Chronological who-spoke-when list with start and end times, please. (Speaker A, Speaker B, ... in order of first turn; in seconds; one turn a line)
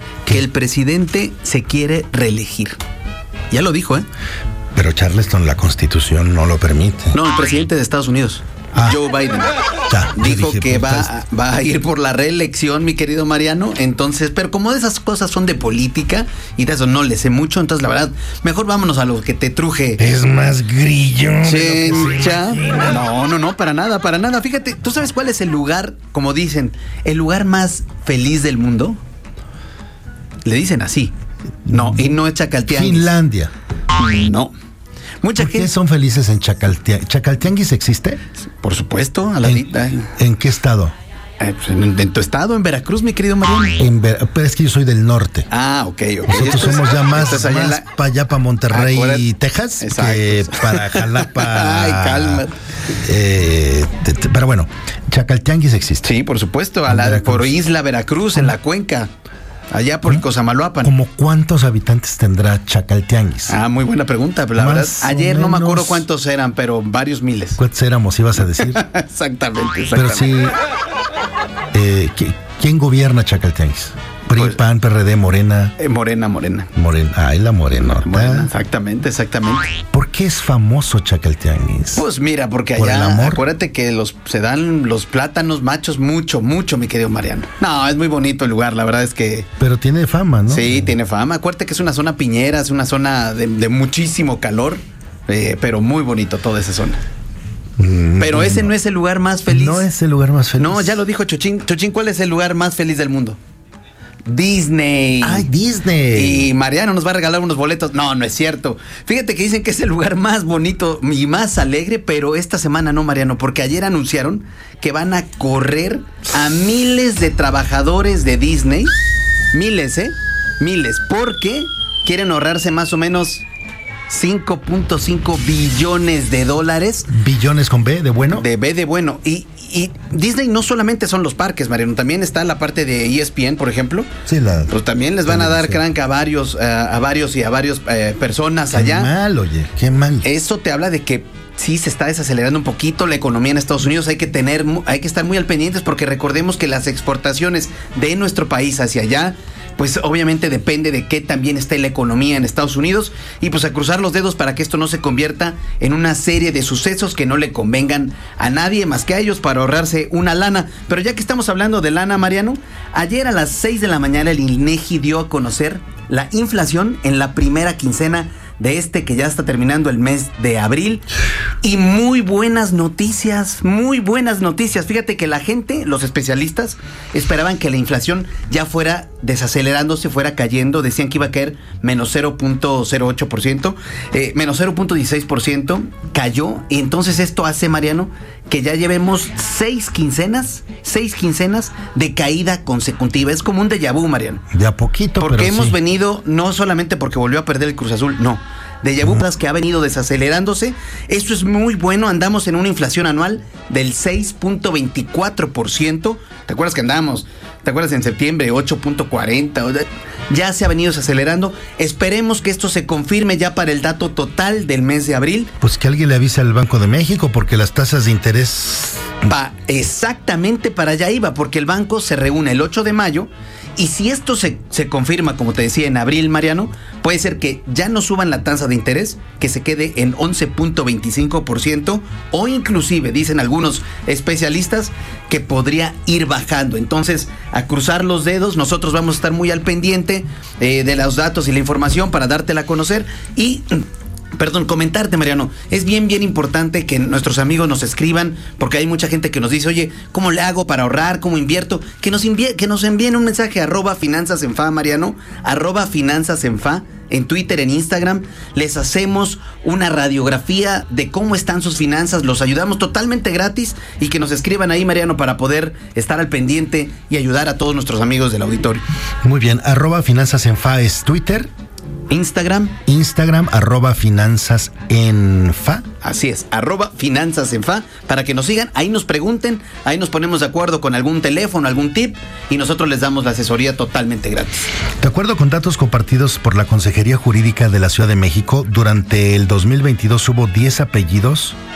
Speaker A: 0.3-2.8
Speaker A: 3.5-4.0
Speaker B: 4.7-7.2
Speaker A: 7.1-9.5
Speaker B: 9.9-11.1
Speaker A: 10.1-20.0
Speaker B: 20.0-23.0
Speaker A: 21.4-29.0
Speaker A: 30.4-31.1
Speaker A: 31.6-33.2
Speaker B: 32.7-33.5
Speaker A: 34.0-34.5
Speaker A: 35.2-35.7
Speaker B: 35.4-38.2
Speaker A: 38.6-40.1
Speaker B: 39.4-40.9
Speaker A: 41.4-43.8
Speaker B: 43.8-45.5
Speaker A: 45.5-47.9
Speaker B: 46.3-52.4
Speaker A: 48.7-49.3
Speaker A: 49.8-52.5
Speaker B: 53.0-56.0
Speaker A: 56.0-59.1
Speaker B: 56.9-57.5
Speaker A: 59.7-60.9
Speaker B: 60.8-63.6
Speaker A: 63.5-67.6
Speaker B: 64.6-66.0
Speaker B: 67.6-68.8
Speaker A: 68.5-70.3
Speaker B: 69.9-70.5
Speaker B: 71.7-75.7
Speaker A: 75.8-76.7
Speaker B: 76.8-78.5
Speaker A: 77.9-79.7
Speaker B: 79.9-82.0
Speaker A: 81.9-89.5
Speaker B: 82.8-83.4
Speaker B: 89.6-90.9
Speaker A: 90.5-97.0
Speaker B: 97.8-98.7
Speaker A: 98.2-99.9
Speaker B: 99.5-101.0
Speaker A: 100.6-103.4
Speaker A: 104.2-105.5
Speaker B: 105.2-106.5
Speaker A: 106.1-118.9
Speaker A: 119.5-123.4
Speaker A: 124.1-127.1
Speaker B: 127.1-128.4
Speaker A: 128.3-134.1
Speaker B: 134.3-134.7
Speaker A: 134.7-139.1
Speaker B: 135.3-135.8
Speaker B: 138.7-140.2
Speaker A: 140.2-171.1
Speaker A: 171.6-194.4
Speaker B: 194.5-195.8
Speaker A: 195.2-215.5
Speaker B: 215.6-219.1
Speaker A: 219.2-243.8
Speaker A: 244.4-268.8
Speaker B: 269.2-271.5
Speaker A: 272.1-272.8
Speaker B: 272.9-275.8
Speaker A: 276.0-284.7
Speaker B: 285.0-291.6